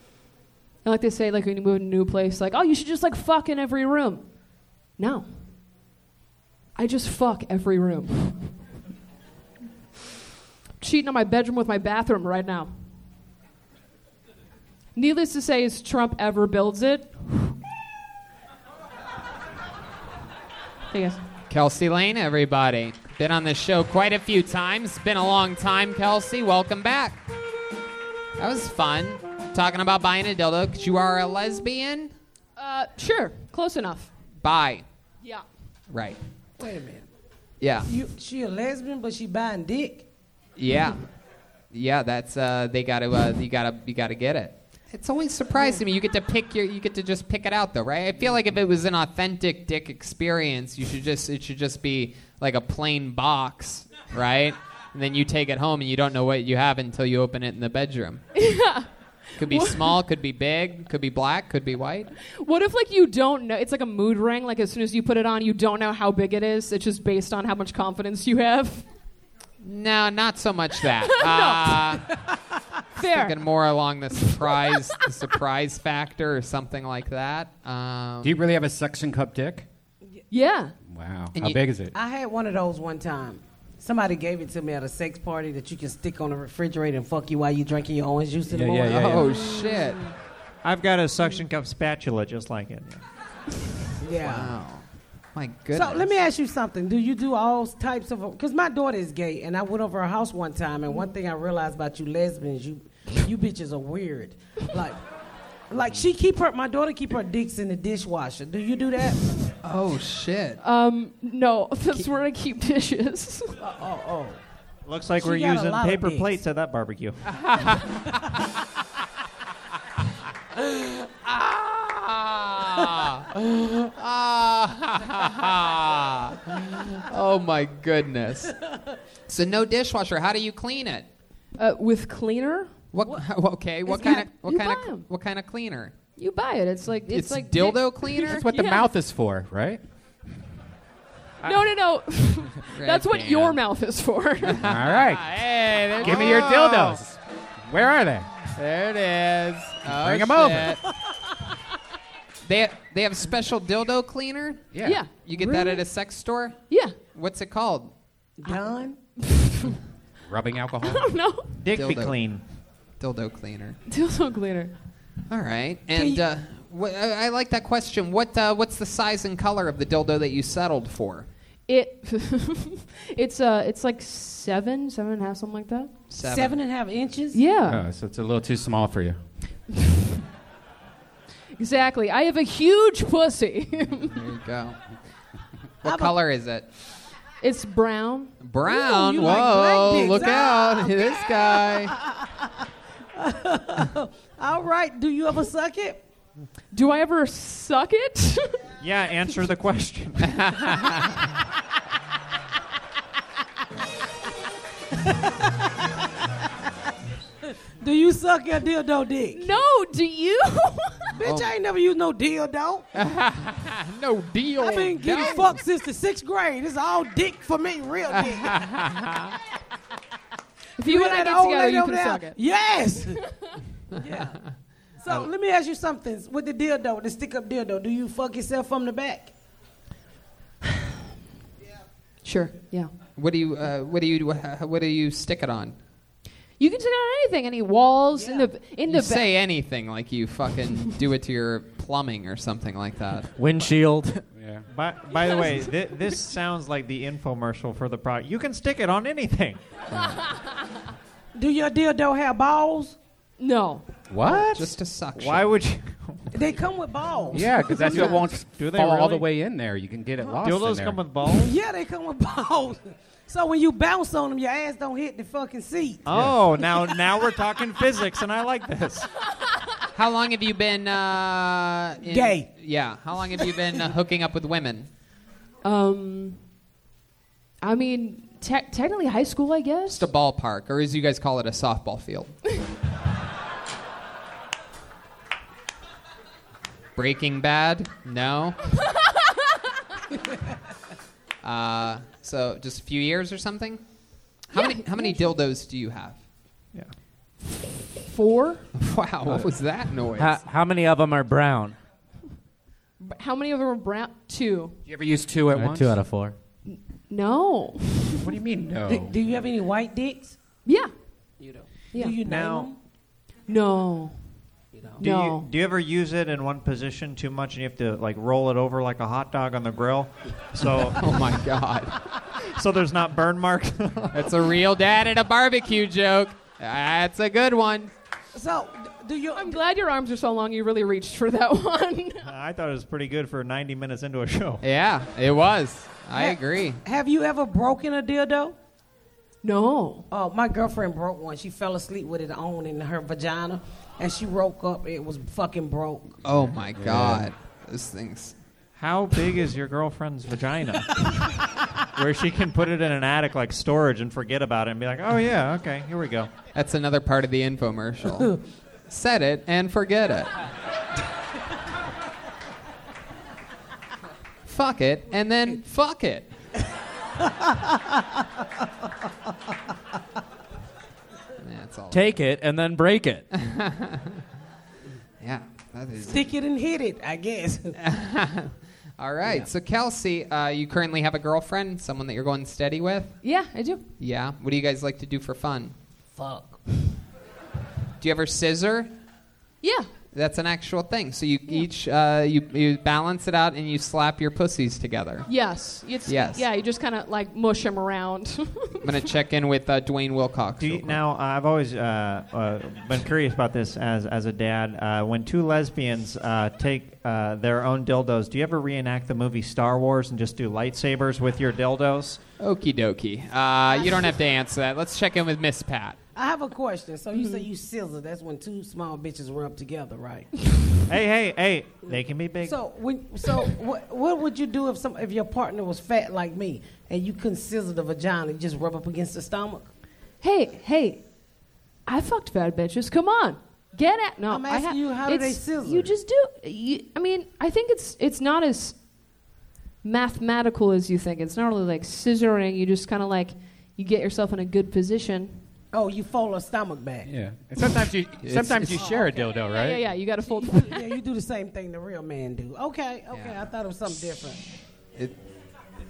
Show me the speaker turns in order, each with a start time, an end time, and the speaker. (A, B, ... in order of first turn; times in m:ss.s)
0:00.8-0:04.3 A
0:05.0-0:05.5 A
0:06.8-0:08.6 A
0:10.8-0:12.9 A
0:14.9-0:17.5 A
0:20.9-0:21.2 A
0:21.5-0:27.2 B
0:28.4-0:32.1 B
0:32.6-0:34.1 A
0:34.4-0:34.8 B
0:35.9-0:36.2 B
0:36.6-0:37.1 C
0:37.6-0:37.9 B
0:37.9-0:40.1 C
0:40.6-0:41.0 B
0:41.7-0:58.2 B
0:58.4-1:00.0 A
0:59.4-1:02.1 B
1:02.4-1:08.9 A
1:09.6-1:12.2 B
1:11.1-1:12.0 A
1:13.0-1:13.4 A
1:13.0-1:18.4 B
1:18.2-1:19.7 D
1:20.3-1:20.7 A
1:20.8-1:21.9 D
1:21.3-1:21.6 B
1:21.9-1:29.1 C
1:28.5-1:29.3 D
1:28.8-1:30.1 B
1:29.5-1:30.0 A
1:30.6-1:33.0 E
1:34.0-1:34.6 C
1:34.2-1:36.0 B
1:35.7-1:45.0 C
1:45.7-1:49.2 C
1:49.6-1:50.6 B
1:50.6-1:53.6 A
1:53.6-1:54.4 C
1:54.8-1:57.2 E
1:55.2-1:56.4 C
1:57.4-1:57.8 B
2:01.0-2:08.6 B
2:09.3-2:11.1 B
2:11.6-2:12.8 A
2:12.9-2:16.0 B
2:13.8-2:15.0 A
2:16.1-2:18.9 A
2:17.1-2:18.4 B
2:18.3-2:19.8 D
2:21.4-2:24.6 A
2:22.7-2:23.6 B
2:24.4-2:27.0 B
2:24.6-2:28.4 D
2:28.5-2:30.8 B
2:29.9-2:30.7 D
2:32.4-2:37.9 B
2:34.7-2:35.0 D
2:34.8-2:35.8 A
2:36.7-2:37.0 A
2:38.4-2:39.0 C
2:39.2-2:39.7 A
2:40.2-2:41.1 D
2:40.8-2:41.5 A
2:41.6-2:42.4 E
2:41.7-2:42.3 B
2:43.0-2:43.8 B
2:43.9-2:44.7 A
2:45.3-2:51.3 B
2:46.0-2:46.2 C
2:51.7-2:55.9 A
2:56.1-2:56.6 B
2:56.2-2:57.4 C
2:57.3-2:57.8 A
2:57.6-2:59.2 D
3:01.6-3:04.2 A
3:04.0-3:04.8 B
3:05.8-3:06.1 C
3:05.8-3:06.7 B
3:07.4-3:08.4 A
3:08.4-3:11.9 B
3:08.7-3:12.5 C
3:09.0-3:09.4 A
3:13.2-3:16.0 C
3:16.7-3:18.6 A
3:18.8-3:20.5 E
3:20.6-3:21.0 B
3:25.0-3:25.9 C
3:27.8-3:29.5 C
3:29.3-3:31.0 A
3:31.1-3:32.9 C
3:31.2-3:31.5 B
3:32.9-3:35.6 B
3:34.6-3:38.6 C
3:38.2-3:39.4 B
3:40.8-3:42.4 A
3:40.8-3:43.2 C
3:43.9-3:44.4 C
3:45.0-3:49.3 C
3:52.2-3:52.9 A
3:53.2-3:55.8 B
3:56.6-3:59.3 A
3:58.1-3:58.5 C
3:58.8-4:03.3 B
4:03.3-4:04.2 F
4:04.3-4:04.6 D
4:04.7-4:09.6 E
4:11.3-4:13.0 C
4:13.4-4:13.9 A
4:14.1-4:14.7 D
4:14.3-4:15.5 B
4:15.2-4:16.3 E
4:16.3-4:17.5 C
4:17.3-4:21.0 D
4:17.7-4:19.3 E
4:17.9-4:18.2 A
4:20.4-4:21.5 E
4:21.4-4:26.0 C
4:26.0-4:29.1 E
4:29.9-4:34.9 B
4:32.0-4:32.5 C
4:35.6-4:36.4 A
4:37.6-4:40.1 A
4:39.9-4:42.3 B
4:47.0-4:48.6 B
4:51.4-4:53.8 B
4:54.5-4:56.2 B
4:54.5-4:55.3 A
4:57.5-4:58.7 A
4:58.7-5:00.4 B
5:00.2-5:01.8 F
5:03.0-5:04.8 A
5:04.8-5:06.0 D
5:05.5-5:06.4 F
5:06.7-5:08.3 A
5:08.2-5:09.1 D
5:08.9-5:10.4 C
5:10.6-5:10.9 A
5:11.4-5:12.8 C
5:12.2-5:12.7 E
5:13.5-5:14.4 A
5:14.7-5:15.0 C
5:15.0-5:21.2 E
5:15.0-5:15.5 A
5:20.9-5:22.0 B
5:22.4-5:24.3 E
5:24.1-5:27.9 B
5:28.3-5:29.6 C
5:29.4-5:32.3 A
5:32.2-5:34.6 E
5:34.6-5:36.8 B
5:36.1-5:38.5 C
5:39.4-5:40.1 A
5:40.1-5:46.2 C
5:46.2-5:48.4 B
5:46.7-5:47.3 D
5:48.8-5:51.3 E
5:52.0-5:56.3 E
5:56.5-6:00.3 B
6:04.4-6:06.3 B
6:07.2-6:08.0 C
6:11.4-6:12.2 B
6:11.9-6:13.2 F
6:13.3-6:14.2 B
6:15.2-6:16.3 B
6:16.0-6:17.8 C
6:17.8-6:23.2 B
6:23.2-6:23.8 A
6:24.0-6:25.7 B
6:26.2-6:26.6 C
6:28.0-6:28.9 B
6:29.6-6:29.9 A
6:30.1-6:36.4 B
6:35.3-6:38.9 A
6:38.8-6:40.9 B
6:40.6-6:52.2 E
6:52.4-6:56.0 B
6:56.1-7:00.3 C
6:57.1-6:57.4 A
7:00.9-7:02.6 E
7:02.4-7:09.7 C
7:10.2-7:11.0 A
7:11.8-7:18.8 A
7:14.3-7:15.9 C
7:19.8-7:25.5 A
7:25.7-7:27.1 C
7:27.0-7:29.9 D
7:28.2-7:28.8 B
7:28.7-7:29.4 C
7:28.7-7:30.9 A
7:30.4-7:34.4 C
7:33.1-7:33.5 B